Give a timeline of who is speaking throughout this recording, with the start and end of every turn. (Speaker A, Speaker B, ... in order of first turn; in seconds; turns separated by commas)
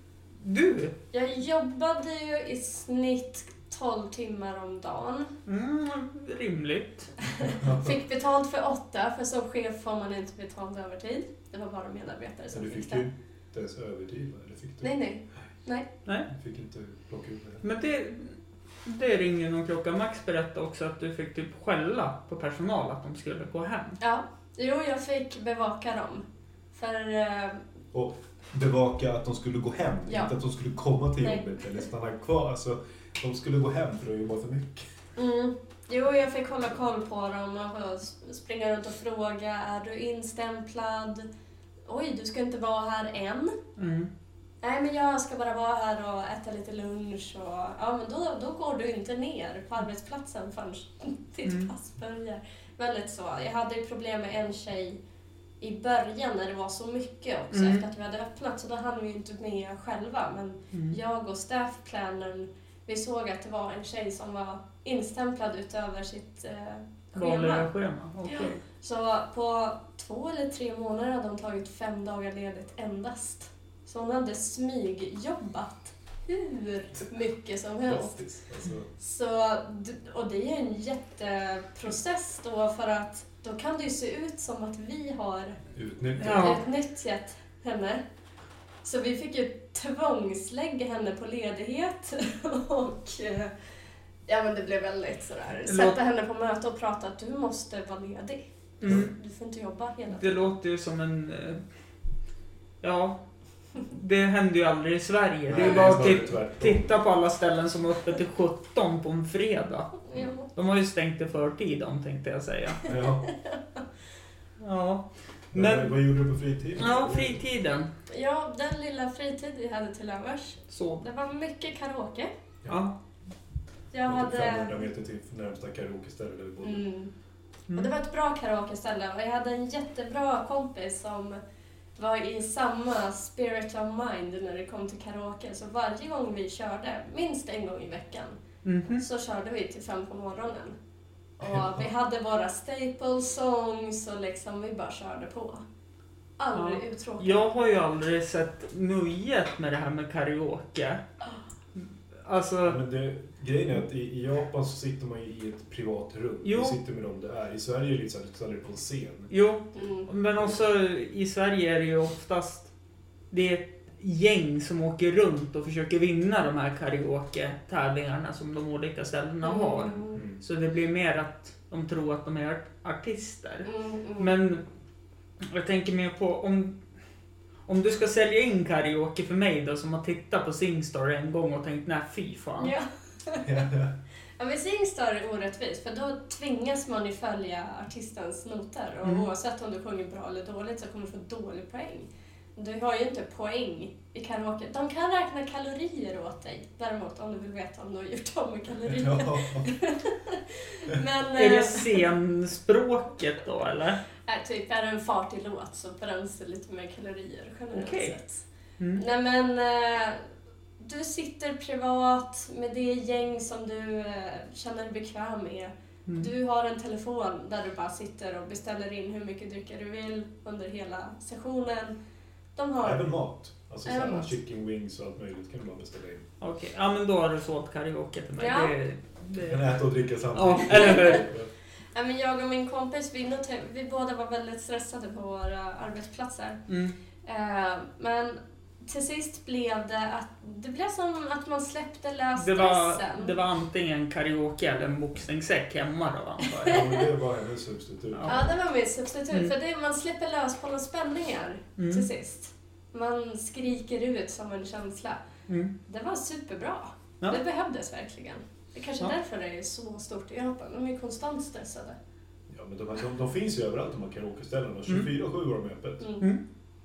Speaker A: 0.4-0.9, Speaker B: 1.1-5.3, Speaker A: 5.5-7.1, Speaker B: 7.3-13.0, Speaker C: 7.5-8.0, Speaker C: 12.5-14.9, Speaker B: 14.8-15.9, Speaker C: 16.3-17.6, Speaker A: 17.6-24.0, Speaker B: 24.0-27.6, Speaker C: 27.9-34.9, Speaker B: 35.2-41.3, Speaker B: 41.9-43.6, Speaker A: 43.8-44.1, Speaker B: 44.6-55.0, Speaker A: 51.5-51.7, Speaker B: 55.6-67.7, Speaker A: 57.5-57.8, Speaker A: 60.7-61.0, Speaker A: 67.2-68.6, Speaker B: 68.3-78.2, Speaker C: 77.9-78.9, Speaker B: 79.0-85.6, Speaker C: 85.7-86.6, Speaker A: 86.2-86.6, Speaker B: 86.3-88.0, Speaker B: 88.8-93.5, Speaker B: 94.3-100.4, Speaker A: 95.7-96.0, Speaker A: 98.8-99.1, Speaker A: 100.1-101.6, Speaker A: 102.8-103.2, Speaker A: 103.9-110.0, Speaker C: 105.5-106.9, Speaker B: 110.1-110.5, Speaker A: 110.5-112.8, Speaker C: 112.8-113.3, Speaker B: 113.2-113.8, Speaker A: 114.6-115.9, Speaker C: 115.5-117.4, Speaker A: 116.8-117.9, Speaker B: 118.1-122.3, Speaker A: 120.7-121.0, Speaker A: 122.7-123.0, Speaker B: 123.9-124.8, Speaker C: 124.1-126.8, Speaker B: 126.6-127.1, Speaker B: 127.7-131.4, Speaker B: 132.0-138.4, Speaker A: 138.7-139.0, Speaker B: 139.0-140.8, Speaker B: 141.4-145.6, Speaker C: 141.4-141.8, Speaker B: 146.4-147.5, Speaker A: 146.5-151.0, Speaker A: 151.8-152.8, Speaker C: 152.7-159.3, Speaker A: 156.4-156.8, Speaker A: 159.3-162.7, Speaker B: 159.8-160.1, Speaker A: 163.3-174.6, Speaker B: 169.4-170.2, Speaker B: 173.7-174.3, Speaker A: 175.4-176.8, Speaker A: 177.7-182.7, Speaker B: 182.6-183.7, Speaker C: 183.4-183.9, Speaker B: 184.4-202.1, Speaker C: 198.9-199.7, Speaker A: 201.4-204.0, Speaker B: 204.3-208.4, Speaker A: 207.7-208.2, Speaker B: 209.0-210.2, Speaker B: 210.8-222.0, Speaker B: 222.6-223.0, Speaker C: 222.8-226.3, Speaker B: 223.9-224.3, Speaker A: 226.4-229.6, Speaker B: 228.4-228.7, Speaker C: 229.4-231.5, Speaker A: 230.3-231.2, Speaker B: 230.7-231.2, Speaker B: 231.9-236.6, Speaker A: 236.7-236.9, Speaker B: 237.2-243.4, Speaker A: 242.4-246.8, Speaker C: 246.7-248.5, Speaker B: 248.3-255.2, Speaker A: 251.8-252.1, Speaker B: 255.9-262.0, Speaker C: 262.5-266.1